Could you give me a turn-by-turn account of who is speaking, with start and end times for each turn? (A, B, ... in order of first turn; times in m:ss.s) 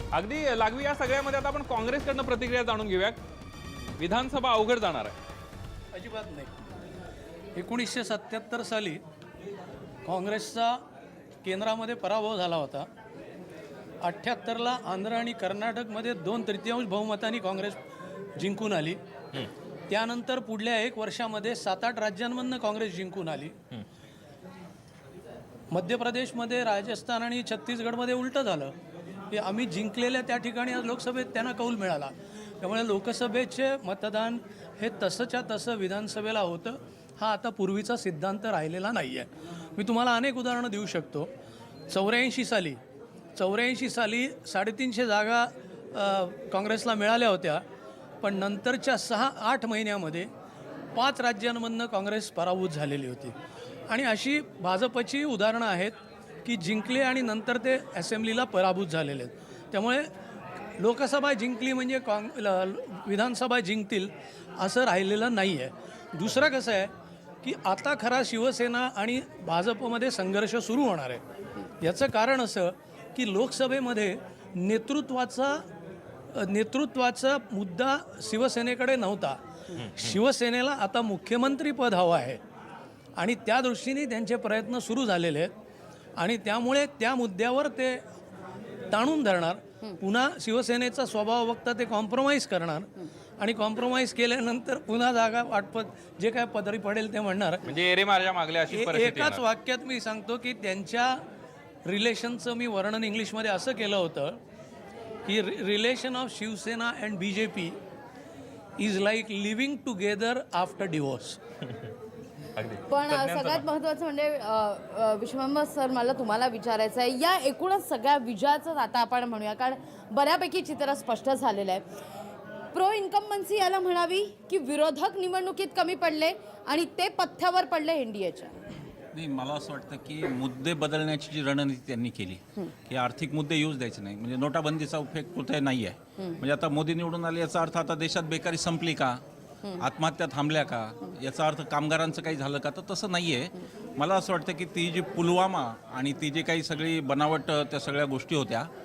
0:00.1-0:03.2 A
0:04.0-0:05.1 A
0:05.9-0:06.5 B
0:07.5-0:09.0 B
0:10.0-0:10.8 B
0:11.4-0:12.9 B
0:14.0-0:17.8 B
0:18.4-0:19.0 B
0:19.9-0:23.6 B
0:25.7-0:28.7 B
0:29.3-0:41.3 B
0:41.9-0:42.8 B
0:43.4-0:47.6 B
0:48.2-0:50.3 B
0:50.9-0:53.3 B
0:53.9-1:00.1 B
1:00.8-1:06.9 B
1:07.4-1:11.2 B
1:11.8-1:15.6 B
1:16.3-1:19.4 B
1:19.8-1:20.1 A
1:19.9-1:22.4 B
1:23.2-1:25.5 B
1:26.2-1:28.0 B
1:28.9-1:37.6 B
1:37.6-1:39.4 A
1:38.7-1:41.2 B
1:41.8-1:44.4 B
1:45.2-1:47.8 B
1:48.8-1:51.4 B
1:52.6-1:53.6 A
1:52.9-2:01.8 C
2:02.7-2:08.7 C
2:09.1-2:19.2 D
2:19.8-2:28.7 D